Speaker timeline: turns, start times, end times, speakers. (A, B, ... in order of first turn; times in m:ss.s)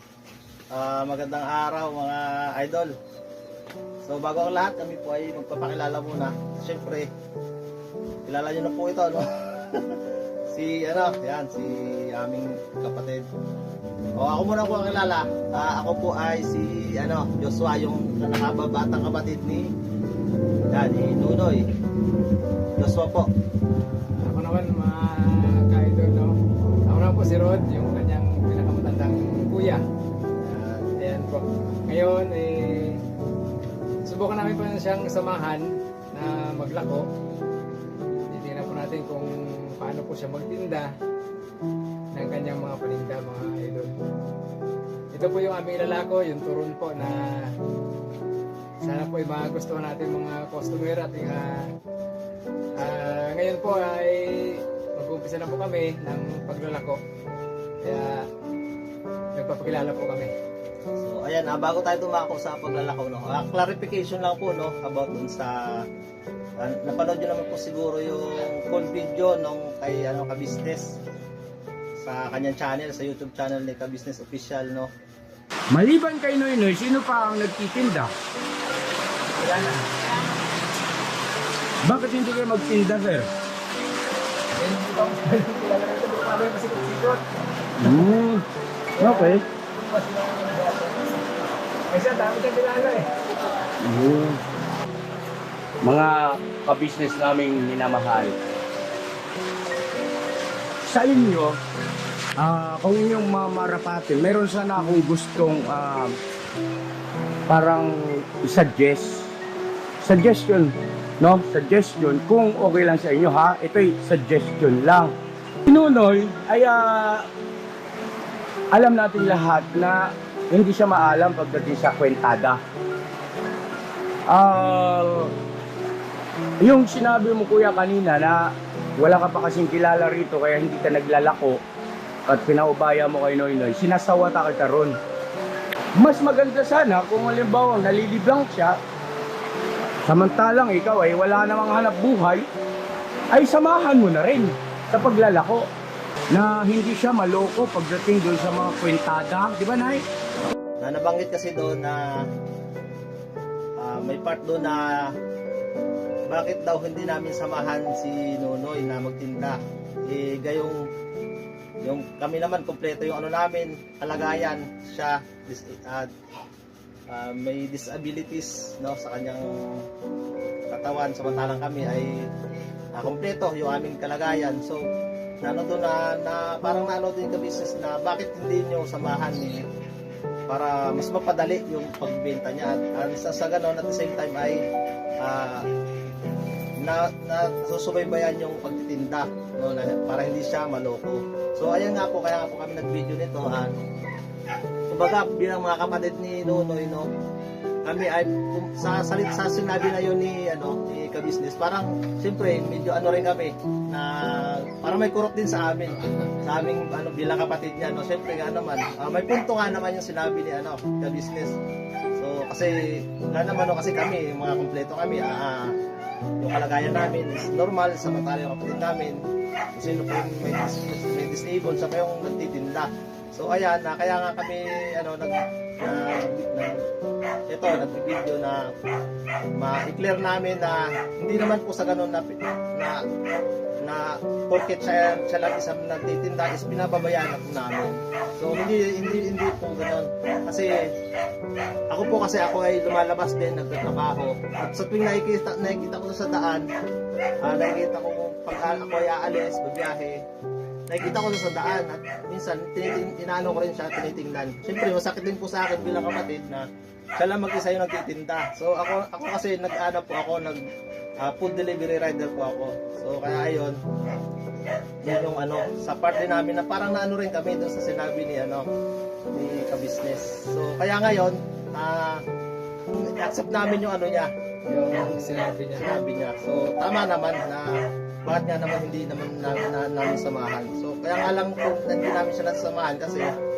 0:00.7-0:02.9 A
0:04.0-0:07.1 A
0:08.3-0:10.0 A
0:10.5-0:13.2 A
0:14.2-0:19.7 A
0:20.7-0:21.7 A
0:22.8-0:23.3 A
0:24.2-0:26.4 B
0:26.9-0:29.8 B
0:30.4-0:30.9 A
0:31.0-0:33.0 B
0:34.1-0:37.1 B
0:38.3-0:40.9 B
0:42.1-0:43.9 B
0:45.1-0:47.5 B
0:48.8-0:51.7 B
0:52.8-0:57.0 B
0:57.8-0:58.3 B
0:59.4-1:00.3 B
1:01.0-1:05.8 A
1:06.6-1:11.0 A
1:12.0-1:14.9 A
1:15.7-1:18.1 C
1:19.4-1:19.8 B
1:21.8-1:23.3 C
1:24.6-1:27.2 B
1:27.8-1:28.4 C
1:29.0-1:31.2 B
1:29.0-1:29.4 C
1:31.9-1:33.1 B
1:33.8-1:34.4 C
1:35.8-1:38.4 C
1:40.9-1:41.6 C
1:42.4-1:46.2 C
1:47.5-1:49.2 C
1:50.0-1:55.1 C
1:55.7-1:57.3 C
1:58.7-2:02.6 C
2:04.3-2:05.3 C
2:06.6-2:11.6 C
2:12.3-2:15.0 C
2:16.0-2:18.8 C
2:20.1-2:22.5 C
2:23.3-2:25.7 C
2:26.3-2:30.0 C
2:30.8-2:32.0 A
2:33.8-2:35.1 A
2:36.3-2:40.8 A
2:41.8-2:46.1 A
2:47.1-2:49.8 A
2:50.7-2:52.3 A
2:53.0-2:54.8 A
2:55.4-2:59.7 A
3:00.5-3:04.6 A
3:05.2-3:05.6 A
3:06.8-3:13.7 A
3:14.9-3:17.1 A
3:17.8-3:31.5 A
3:32.2-3:35.7 A
3:36.4-3:39.2 A
3:39.8-3:46.8 A
3:47.5-3:48.7 A
3:49.6-3:53.0 A
3:53.8-4:00.8 A
4:01.9-4:06.7 A
4:07.4-4:10.2 A
4:10.9-4:16.7 A
4:17.2-4:20.6 A
4:21.2-4:23.8 A
4:25.0-4:28.7 A
4:29.3-4:32.2 A
4:32.9-4:43.3 A
4:34.7-4:35.9 B